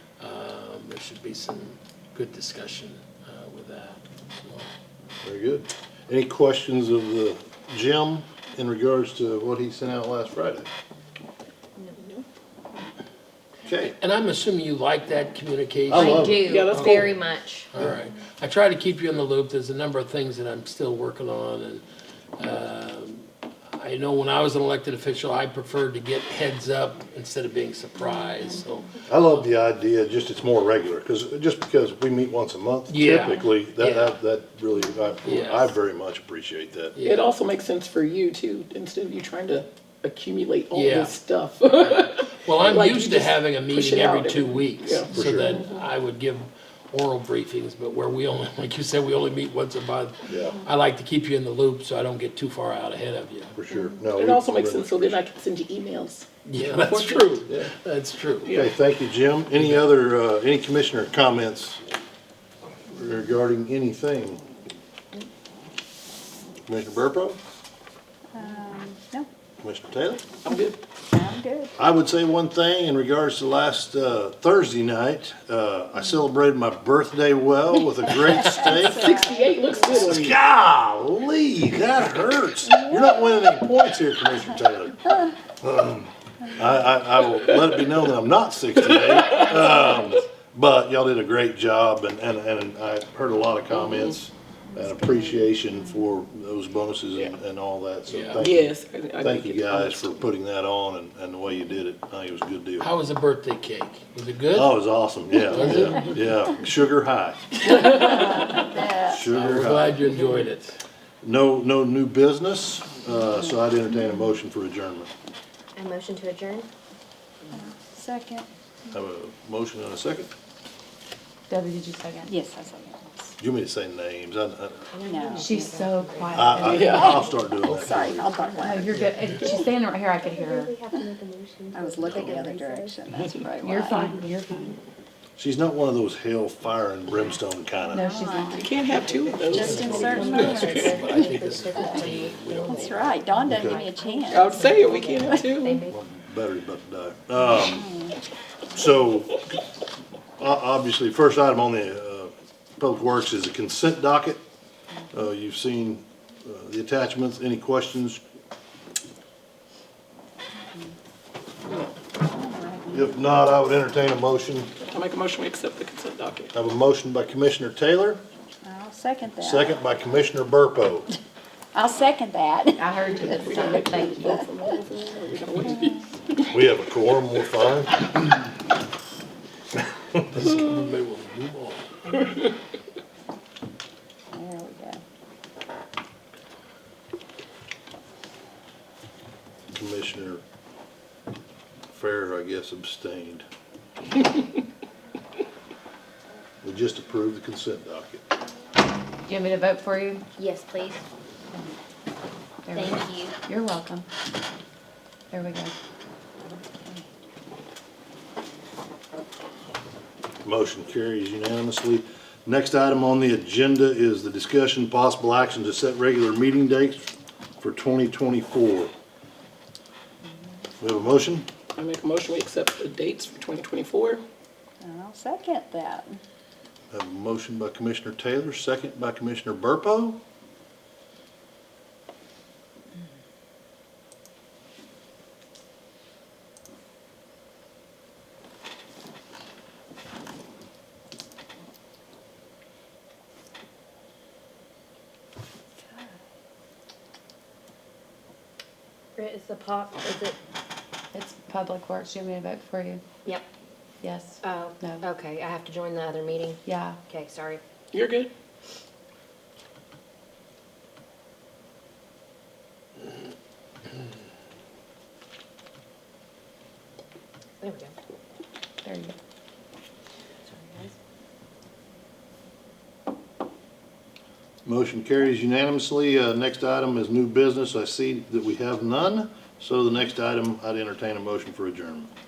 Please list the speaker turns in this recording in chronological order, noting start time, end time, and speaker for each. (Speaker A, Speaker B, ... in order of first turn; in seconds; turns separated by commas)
Speaker A: 0.2-4.7, Speaker B: 5.2-10.7, Speaker C: 11.9-12.2, Speaker B: 13.6-13.9, Speaker A: 14.0-17.2, Speaker B: 15.9-16.4, Speaker D: 15.9-17.7, Speaker C: 16.4-17.2, Speaker A: 17.7-21.8, Speaker A: 22.4-29.5, Speaker B: 29.1-37.0, Speaker A: 32.9-34.2, Speaker A: 35.2-35.8, Speaker A: 37.0-37.2, Speaker C: 37.0-45.2, Speaker A: 40.7-41.1, Speaker A: 41.9-53.5, Speaker B: 45.1-45.6, Speaker B: 50.3-50.5, Speaker B: 53.5-55.2, Speaker C: 53.7-57.5, Speaker A: 56.5-58.5, Speaker C: 58.5-58.7, Speaker B: 58.5-61.8, Speaker A: 59.5-59.9, Speaker B: 62.9-64.4, Speaker B: 66.7-67.4, Speaker E: 68.3-69.3, Speaker B: 69.6-70.3, Speaker C: 70.4-70.8, Speaker E: 71.1-71.8, Speaker B: 71.8-79.2, Speaker E: 78.1-80.0, Speaker C: 78.8-80.4, Speaker B: 79.9-102.9, Speaker E: 82.7-83.6, Speaker C: 88.9-89.6, Speaker C: 93.7-94.1, Speaker E: 94.8-95.5, Speaker A: 98.1-98.4, Speaker C: 98.4-100.2, Speaker A: 102.8-104.8, Speaker B: 104.5-107.6, Speaker A: 105.3-106.2, Speaker A: 107.7-110.8, Speaker E: 107.8-109.2, Speaker B: 109.1-110.1, Speaker B: 111.2-115.1, Speaker D: 115.8-116.7, Speaker E: 117.5-118.5, Speaker B: 118.9-120.3, Speaker F: 121.5-122.4, Speaker E: 122.3-123.3, Speaker B: 123.4-124.9, Speaker D: 124.9-133.0, Speaker E: 125.0-125.5, Speaker F: 125.4-126.9, Speaker B: 126.3-128.2, Speaker C: 126.7-127.2, Speaker E: 126.9-128.9, Speaker A: 127.6-128.3, Speaker F: 128.6-130.8, Speaker A: 128.9-129.4, Speaker E: 131.7-134.2, Speaker B: 132.1-132.3, Speaker F: 133.6-134.8, Speaker D: 133.9-134.7, Speaker B: 135.4-138.1, Speaker F: 137.9-138.7, Speaker E: 137.9-138.9, Speaker C: 138.5-141.1, Speaker D: 139.2-146.1, Speaker E: 139.5-142.2, Speaker A: 139.6-143.2, Speaker E: 142.7-144.5, Speaker B: 143.5-143.8, Speaker C: 144.3-145.8, Speaker B: 145.9-147.9, Speaker E: 147.6-148.2, Speaker B: 148.7-149.5, Speaker B: 150.4-154.4, Speaker B: 155.1-158.2, Speaker E: 162.2-163.2, Speaker B: 162.9-164.7, Speaker C: 164.9-166.5, Speaker B: 166.5-168.2, Speaker E: 168.6-169.8, Speaker B: 169.4-171.2, Speaker E: 171.8-173.4, Speaker F: 172.8-174.4, Speaker C: 173.1-176.6, Speaker E: 174.2-174.5, Speaker B: 176.5-178.0, Speaker A: 180.3-182.4, Speaker E: 184.3-185.0, Speaker B: 189.7-190.4, Speaker B: 191.9-193.4, Speaker B: 196.6-198.2, Speaker F: 199.3-200.2, Speaker D: 200.4-201.0, Speaker F: 202.7-204.1, Speaker D: 202.8-203.3, Speaker F: 205.3-205.7, Speaker B: 210.4-217.1, Speaker B: 217.6-218.9, Speaker B: 220.8-221.5, Speaker C: 221.8-224.2, Speaker E: 224.8-226.2, Speaker B: 226.9-230.2, Speaker D: 249.2-250.4, Speaker F: 251.1-253.0, Speaker F: 254.0-255.1, Speaker D: 254.4-257.6, Speaker F: 256.6-257.0, Speaker C: 257.9-258.3, Speaker D: 267.6-267.9, Speaker F: 268.9-269.1, Speaker D: 270.4-270.9, Speaker B: 274.6-282.1